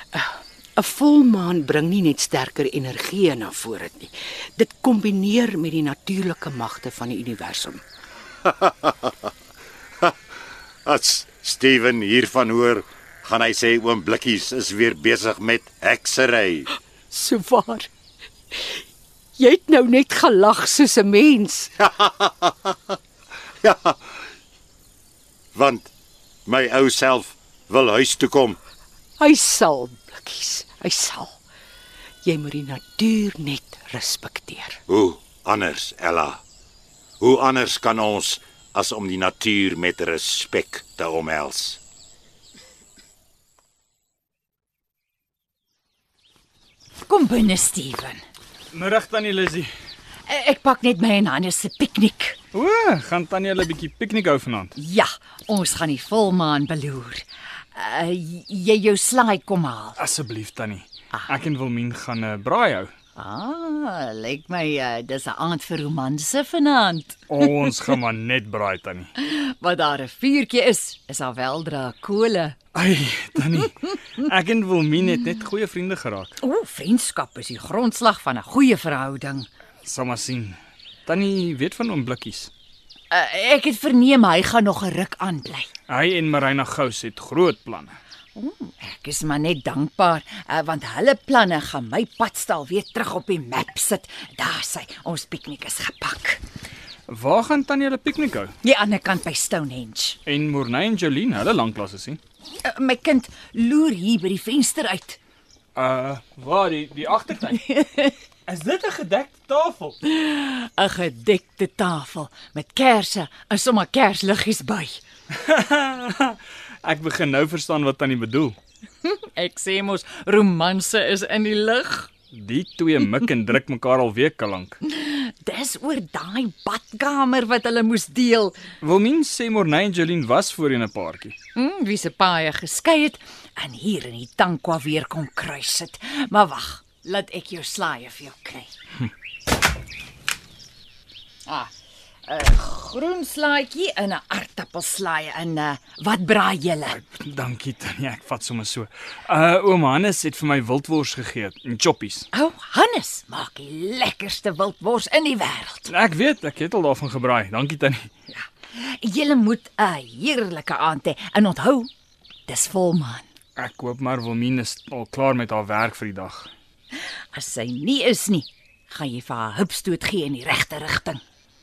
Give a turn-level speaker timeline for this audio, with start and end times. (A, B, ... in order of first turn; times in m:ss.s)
0:00.1-0:07.8 A
0:08.4-0:09.3 B
0:10.8-0:16.7 B
0:17.1-0:17.9 A
0:19.4-0:21.7 A
0:21.8-0:23.0 B
0:23.6-0:24.0 B
0:25.5-0:25.9 B
0:26.5-0:28.6 B
0:29.2-0:31.4 A
0:32.2-0:34.8 A
0:34.9-0:36.4 B
0:37.2-0:41.8 B
0:47.0-0:48.2 C
0:48.7-0:49.7 D
0:50.2-0:52.4 C
0:52.5-0:54.7 D
0:54.8-1:00.0 C
1:00.0-1:02.9 D
1:03.2-1:07.3 C
1:07.3-1:09.1 D
1:09.2-1:12.6 C
1:12.7-1:16.4 D
1:16.4-1:19.5 C
1:19.8-1:22.5 D
1:23.1-1:25.7 C
1:25.9-1:27.9 D
1:28.3-1:36.4 C
1:37.1-1:38.5 D
1:38.6-1:40.2 C
1:40.2-1:42.2 D
1:42.6-1:45.2 C
1:45.7-1:47.6 D
1:47.6-1:48.1 C
1:48.5-1:50.0 D
1:50.0-1:55.0 C
1:55.4-1:58.6 D
1:59.0-2:02.1 C
2:02.3-2:04.8 D
2:04.8-2:08.6 C
2:08.8-2:11.3 D
2:11.5-2:18.7 C
2:21.4-2:21.7 C
2:22.2-2:27.0 C
2:26.9-2:32.3 D
2:32.3-2:35.9 C
2:35.9-2:38.1 D
2:38.3-2:41.9 C
2:42.5-2:43.3 C
2:43.6-2:46.5 D
2:47.3-2:51.2 C